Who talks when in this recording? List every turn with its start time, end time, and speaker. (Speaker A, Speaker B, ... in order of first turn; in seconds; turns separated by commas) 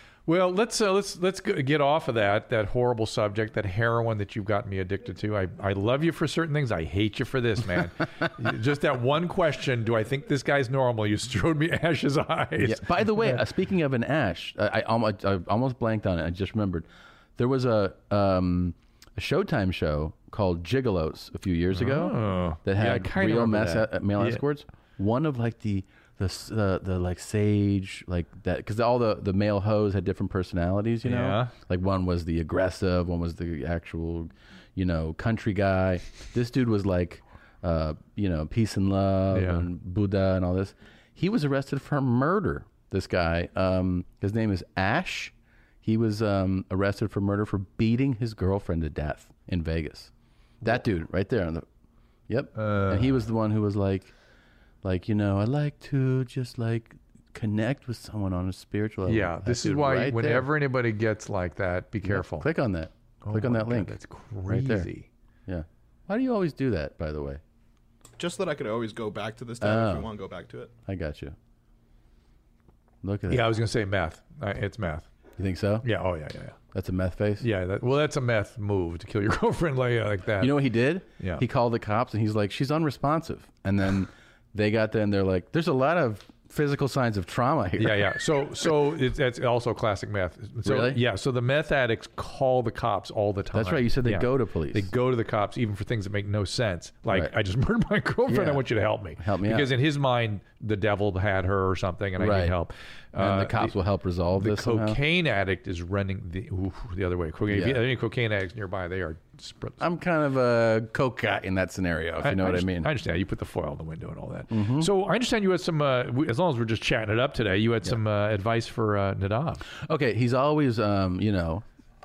Speaker A: 0.3-13.4, Speaker B: 12.6-50.1, Speaker A: 21.7-24.4, Speaker A: 31.0-31.5, Speaker A: 39.3-39.7, Speaker B: 50.6-51.7, Speaker B: 52.3-54.1, Speaker A: 52.5-53.2, Speaker B: 54.8-60.5, Speaker A: 59.0-62.5, Speaker B: 62.0-64.9, Speaker A: 63.2-65.1, Speaker B: 65.5-67.4, Speaker C: 68.2-70.7, Speaker B: 69.6-70.1, Speaker B: 70.9-71.3, Speaker B: 73.0-73.5, Speaker A: 73.3-75.1, Speaker B: 75.4-75.8, Speaker A: 75.8-76.6, Speaker B: 76.7-77.5, Speaker A: 77.4-80.6, Speaker B: 80.4-88.2, Speaker A: 87.8-103.8, Speaker B: 90.6-91.0, Speaker B: 93.5-94.9, Speaker B: 98.3-98.7, Speaker B: 99.2-99.7, Speaker B: 102.2-102.6, Speaker B: 103.2-105.0, Speaker A: 104.3-109.8, Speaker B: 107.5-107.8, Speaker B: 109.8-112.9, Speaker A: 112.2-119.7, Speaker B: 114.5-114.9, Speaker B: 119.7-121.7